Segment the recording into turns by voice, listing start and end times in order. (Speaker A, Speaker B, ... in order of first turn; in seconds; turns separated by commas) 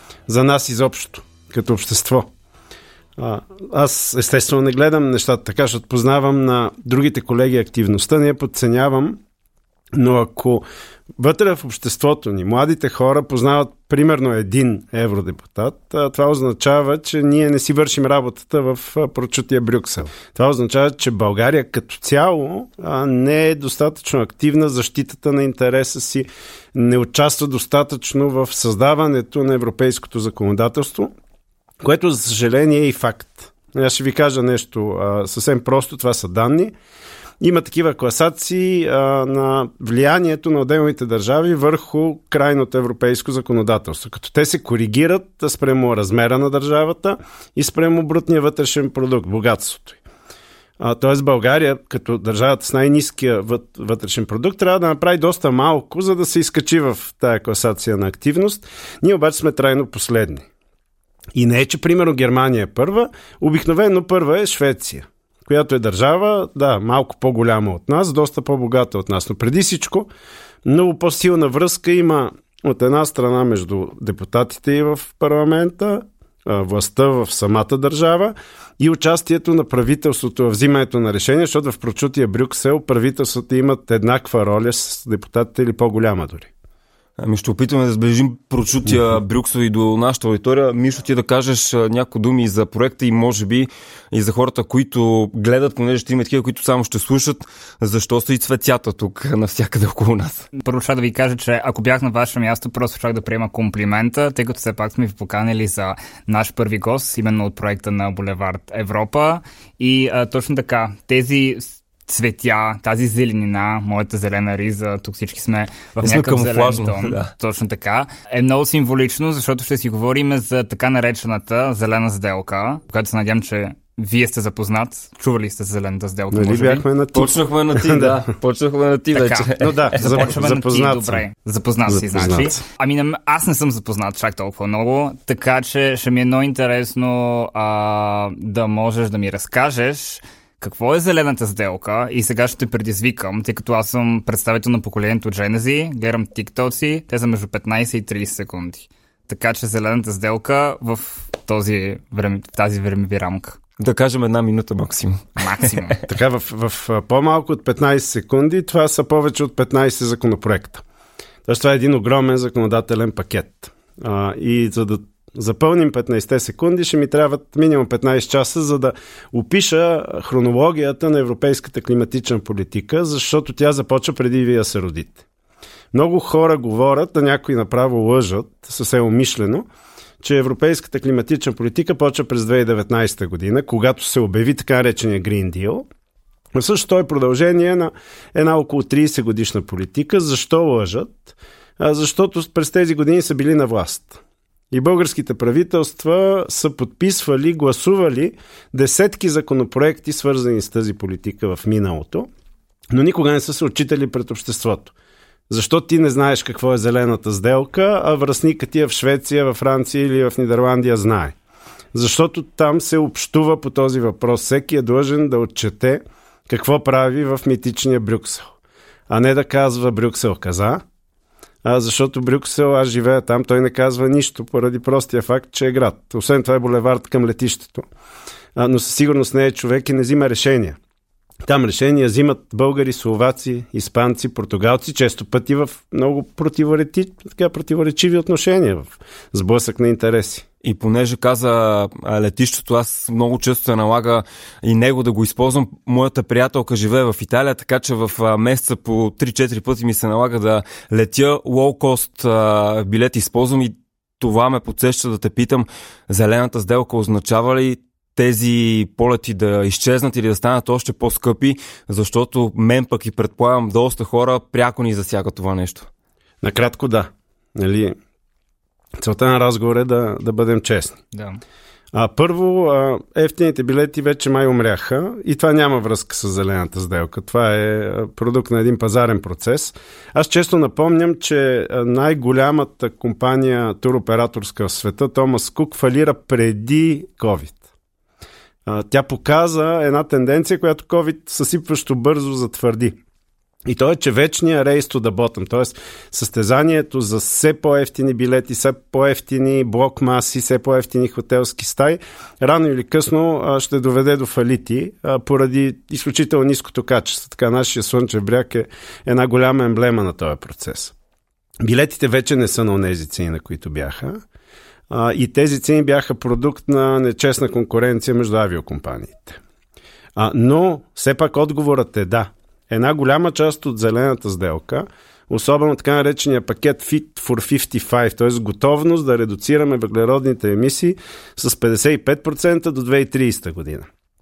Speaker A: 0.3-2.3, Speaker A: 3.2-9.2, Speaker A: 9.9-10.7, Speaker A: 11.2-31.1, Speaker A: 31.8-36.7, Speaker A: 37.4-50.0, Speaker A: 50.8-60.5, Speaker A: 61.4-70.1, Speaker A: 70.7-86.5, Speaker B: 87.2-100.5, Speaker C: 100.5-126.8, Speaker B: 116.0-117.3, Speaker A: 126.3-128.3, Speaker B: 127.1-130.2, Speaker C: 129.1-153.6, Speaker A: 129.5-131.2, Speaker A: 131.9-132.6, Speaker B: 153.8-155.9, Speaker C: 155.4-156.0, Speaker A: 156.1-160.8, Speaker A: 161.5-175.2, Speaker A: 175.9-179.7, Speaker A: 180.2-185.8, Speaker A: 186.6-202.3, Speaker A: 202.9-204.9, Speaker A: 205.5-211.3, Speaker A: 211.9-218.5, Speaker A: 219.1-220.8, Speaker A: 221.6-227.9, Speaker A: 228.6-230.8, Speaker A: 231.4-240.5, Speaker B: 240.6-265.9, Speaker A: 266.4-268.0, Speaker A: 269.0-271.0, Speaker C: 271.1-271.4, Speaker A: 271.9-287.6, Speaker A: 288.7-293.0, Speaker A: 293.7-310.9, Speaker A: 311.6-314.2, Speaker A: 314.9-319.4, Speaker A: 320.2-333.9